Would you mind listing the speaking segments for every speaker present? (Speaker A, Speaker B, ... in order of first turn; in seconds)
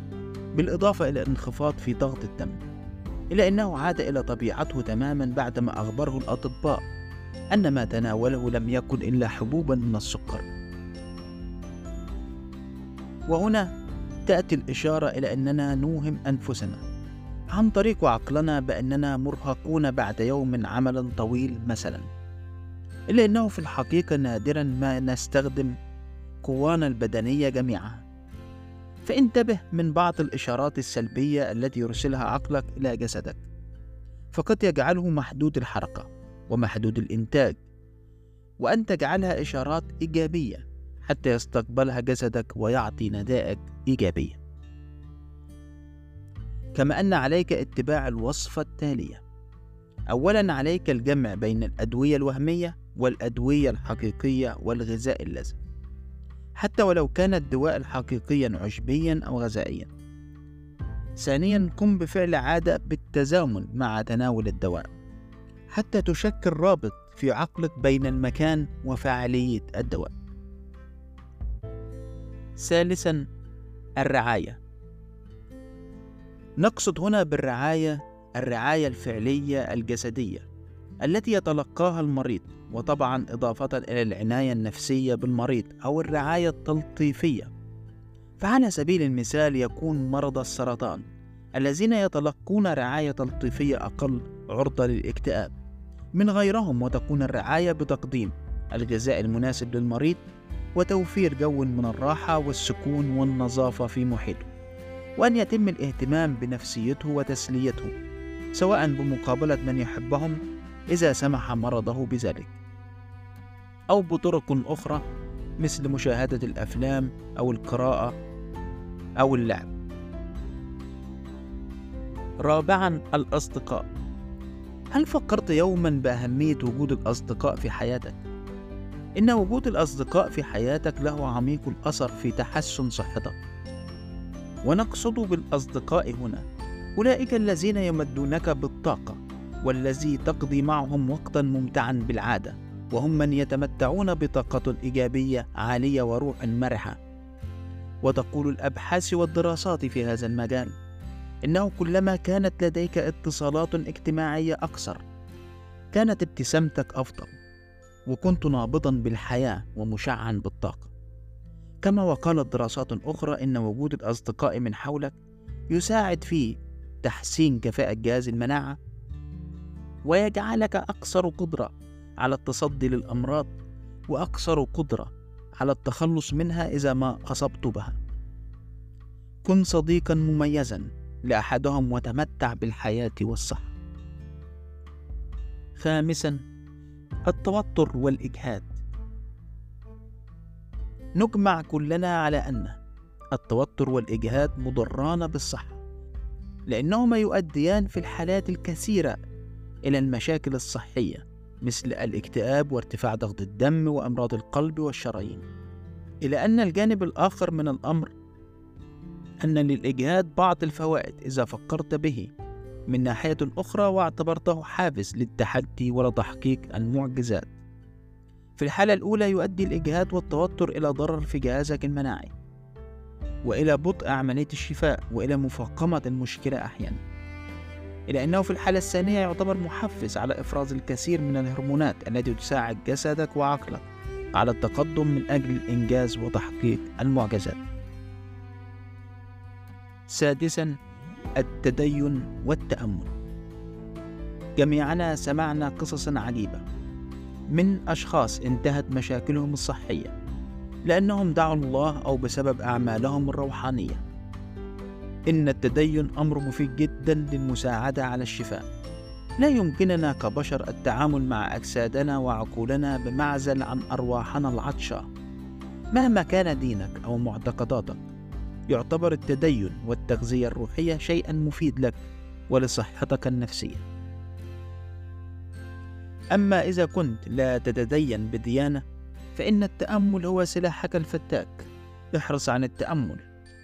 Speaker A: 0.6-2.6, 3.3-6.8, 7.5-10.5, 13.3-13.7, 14.3-16.8, 17.6-22.1, 23.1-25.7, 26.4-28.0, 29.1-33.4, 34.3-37.6, 38.6-44.4, 46.8-49.2, 50.1-55.6, 56.6-59.9, 61.2-64.9, 65.7-70.1, 72.6-73.2, 74.0-74.6, 76.6-80.5, 81.0-87.5, 88.4-91.0, 91.6-95.5, 96.2-100.2, 100.8-104.5, 105.2-107.9, 108.6-110.4, 110.9-112.6, 113.9-115.0, 115.6-118.1, 119.2-119.7, 122.4-123.8, 124.9-128.2, 129.2-133.4, 134.7-136.4, 137.0-147.0, 148.0-150.7, 151.5-155.0, 155.9-157.4, 158.1-160.9, 161.8-165.2, 165.7-168.8, 170.1-173.5, 174.1-178.0, 179.4-183.8, 185.8-186.4, 187.3-188.8, 191.2-192.8, 193.3-195.8, 196.7-199.2, 199.9-205.4, 206.2-208.1, 209.4-212.3, 212.9-217.5, 218.6-222.3, 223.5-227.0, 228.1-237.6, 240.1-240.8, 241.4-243.1, 244.6-246.6, 247.5-250.1, 250.9-254.0, 255.3-258.6, 259.4-265.1, 265.9-268.0, 268.7-273.8, 276.4-278.8, 279.4-283.2